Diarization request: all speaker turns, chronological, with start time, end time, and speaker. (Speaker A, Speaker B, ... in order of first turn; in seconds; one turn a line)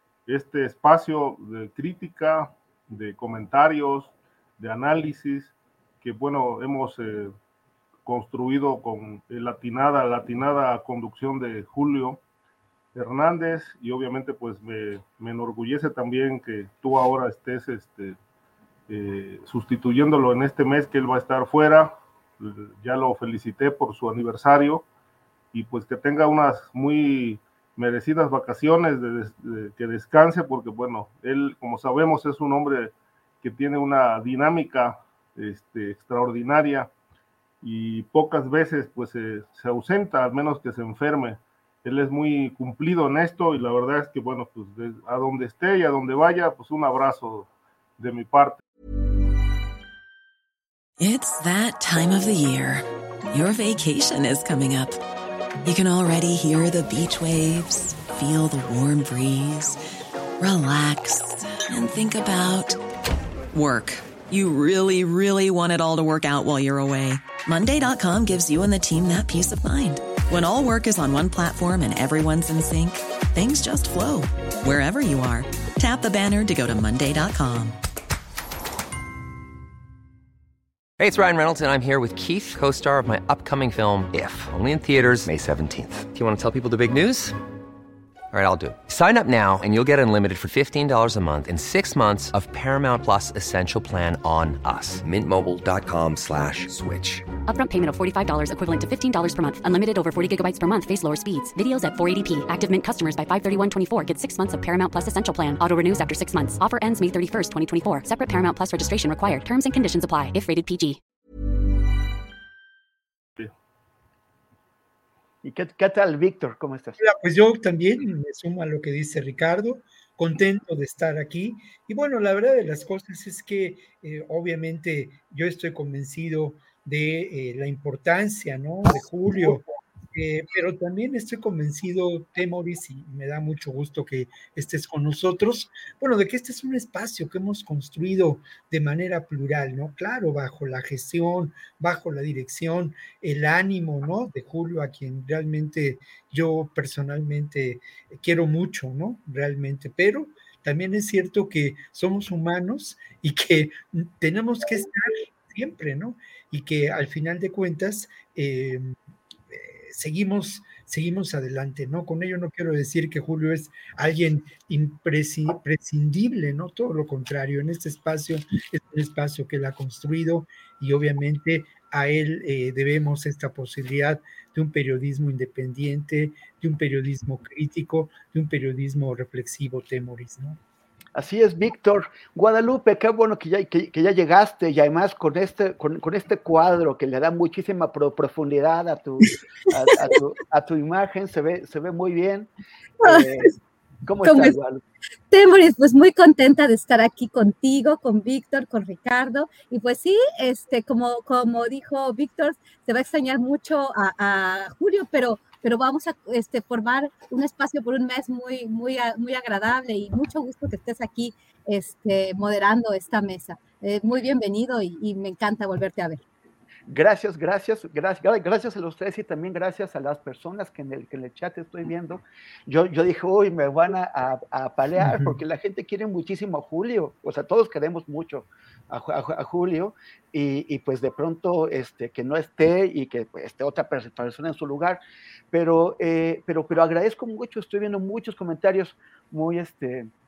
Speaker A: 0.3-7.3
Speaker A: 8.1-12.2
Speaker A: 12.9-18.2
Speaker A: 18.9-24.8
Speaker A: 25.5-36.9
Speaker A: 37.6-48.6
Speaker B: 51.0-55.0
Speaker B: 55.6-59.8
Speaker B: 60.4-62.8
Speaker B: 63.5-77.8
Speaker C: 81.0-87.4
Speaker C: 88.3-97.3
Speaker D: 97.4-111.0
Speaker E: 115.4-117.0
Speaker F: 117.0-158.9
Speaker F: 159.5-180.6
Speaker E: 181.1-192.5
Speaker G: 193.0-193.4
Speaker E: 193.0-193.6
Speaker E: 194.1-194.8
Speaker G: 194.2-194.6
Speaker G: 195.3-216.2
Speaker E: 216.9-235.0
Speaker F: 225.0-225.4
Speaker E: 235.5-240.1